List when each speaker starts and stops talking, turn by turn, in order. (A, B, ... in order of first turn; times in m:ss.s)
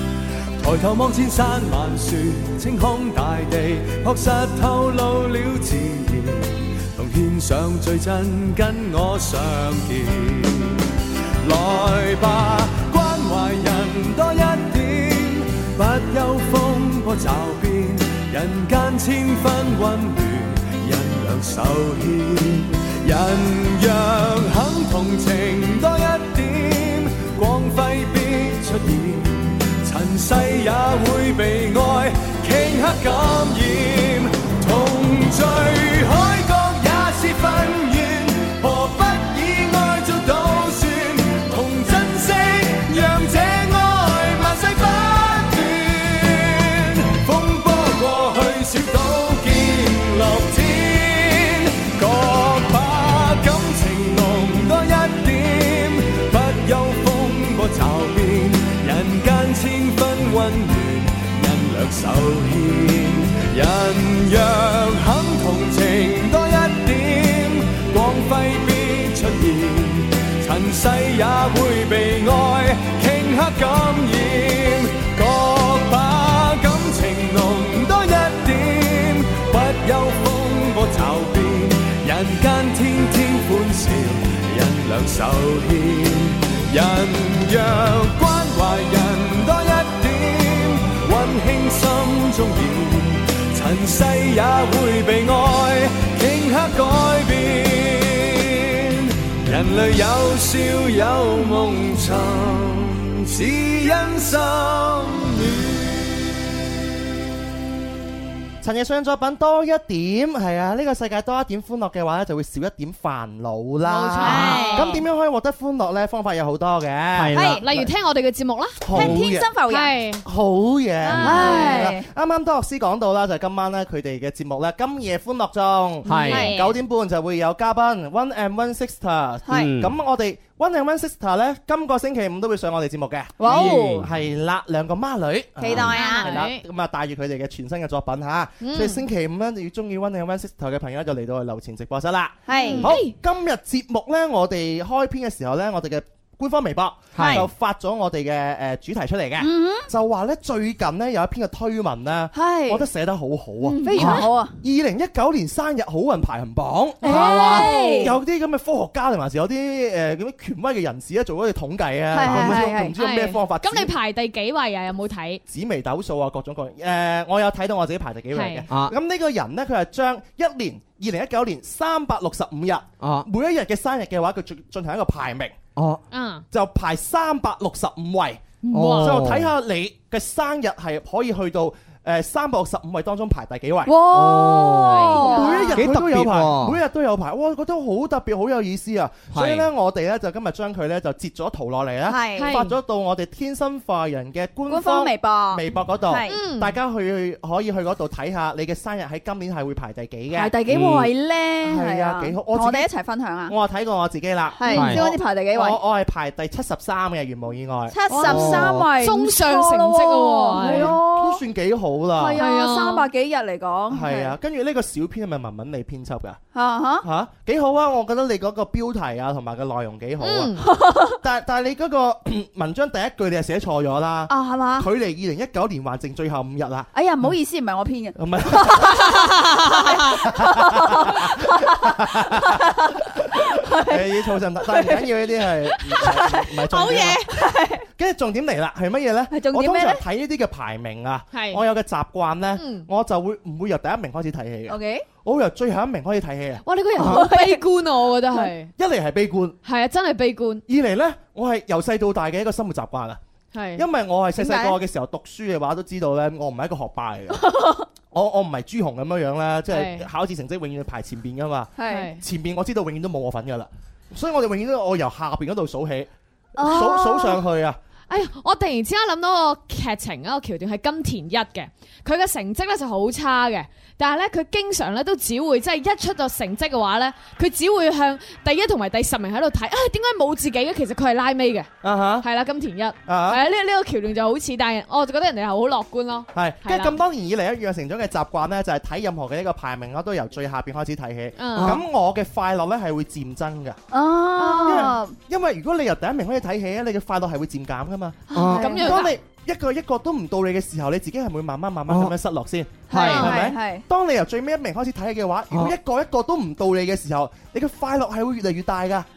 0:00.6-0:10.8 A
0:11.4-1:45.8 A
1:48.6-1:57.9 B
1:53.8-1:55.0 C
1:54.2-1:55.0 D
1:57.2-1:57.8 E
1:57.3-1:57.6 D
1:57.6-2:00.2 C
1:58.8-1:59.6 B
1:58.9-2:00.0 D
2:00.2-2:43.9 B
2:01.0-2:01.9 C
2:01.2-2:02.0 D
2:06.0-2:06.5 E
2:06.1-2:06.8 C
2:06.3-2:06.6 D
2:09.5-2:09.7 D
2:09.5-2:10.0 E
2:13.4-2:14.1 D
2:13.4-2:14.1 E
2:15.6-2:16.4 D
2:15.9-2:16.6 C
2:18.6-2:19.1 C
2:22.5-2:22.9 D
2:22.6-2:23.2 C
2:27.1-2:27.5 E
2:27.2-2:27.4 D
2:29.4-2:29.9 D
2:32.3-2:32.9 D
2:33.7-2:34.6 D
2:33.8-2:34.2 C
2:37.0-2:38.2 D
2:37.0-2:38.2 C
2:42.1-2:43.0 D
2:43.0-2:45.4 C
2:45.5-2:55.6 B
2:48.3-2:48.7 C
2:48.7-2:49.0 E
2:53.0-2:53.3 E
2:55.8-2:56.0 E
2:56.1-2:56.5 C
2:56.5-3:04.0 B
2:58.6-2:59.3 C
2:58.7-2:59.5 E
3:03.9-3:05.8 D
3:04.1-3:05.2 E
3:04.7-3:05.7 C
3:05.2-3:20.6 B
3:05.8-3:06.8 E
3:09.3-3:09.7 E
3:12.1-3:12.6 D
3:12.4-3:12.8 C
3:14.7-3:16.4 D
3:16.3-3:16.8 C
3:20.3-3:23.6 D
3:20.7-3:21.1 E
3:21.6-3:22.9 B
3:23.5-3:28.0 B
3:24.6-3:25.8 D
3:24.7-3:25.0 E
3:27.9-3:31.4 D
3:28.1-3:31.0 C
3:28.2-3:28.9 E
3:30.6-3:32.4 B
3:32.2-3:34.3 D
3:32.4-3:33.1 C
3:33.9-3:36.4 B
3:36.5-3:37.1 D
3:37.0-3:40.6 B
3:40.2-3:40.6 C
3:40.6-3:41.2 D
3:41.2-3:46.9 B
3:44.3-3:44.9 D
3:46.9-3:51.8 D
3:48.2-3:49.2 B
3:50.1-3:53.2 B
3:52.4-3:52.9 D
3:53.4-3:55.1 D
3:53.8-3:57.2 B
3:55.7-3:57.8 D
3:57.9-4:06.6 B
3:59.3-4:00.0 D
4:01.3-4:01.6 C
4:02.6-4:02.9 C
4:04.7-4:05.1 D
4:06.6-4:08.7 C
4:07.0-4:07.6 D
4:08.8-4:09.6 B
4:09.6-4:10.6 C
4:10.7-4:13.2 B
4:13.5-4:13.9 C
4:13.8-4:17.5 B
4:14.4-4:14.8 D
4:17.4-4:17.8 D
4:18.1-4:27.8 B
4:19.7-4:20.1 C
4:21.8-4:22.1 D
4:21.9-4:22.2 C
4:26.6-4:27.4 D
4:28.1-4:41.7 C
4:41.8-4:42.3 B
4:42.2-4:47.0 C
4:43.1-4:43.4 B
4:46.3-4:53.8 B
4:51.4-4:51.8 C
4:51.6-4:51.8 E
4:53.9-4:55.2 D
4:54.4-4:54.9 C
4:54.6-5:09.1 B
4:58.3-4:59.1 D
4:58.3-4:58.8 E
4:58.5-4:59.2 C
5:01.9-5:02.2 E
5:02.9-5:03.3 E
5:02.9-5:03.8 D
5:03.0-5:03.4 C
5:05.5-5:05.8 E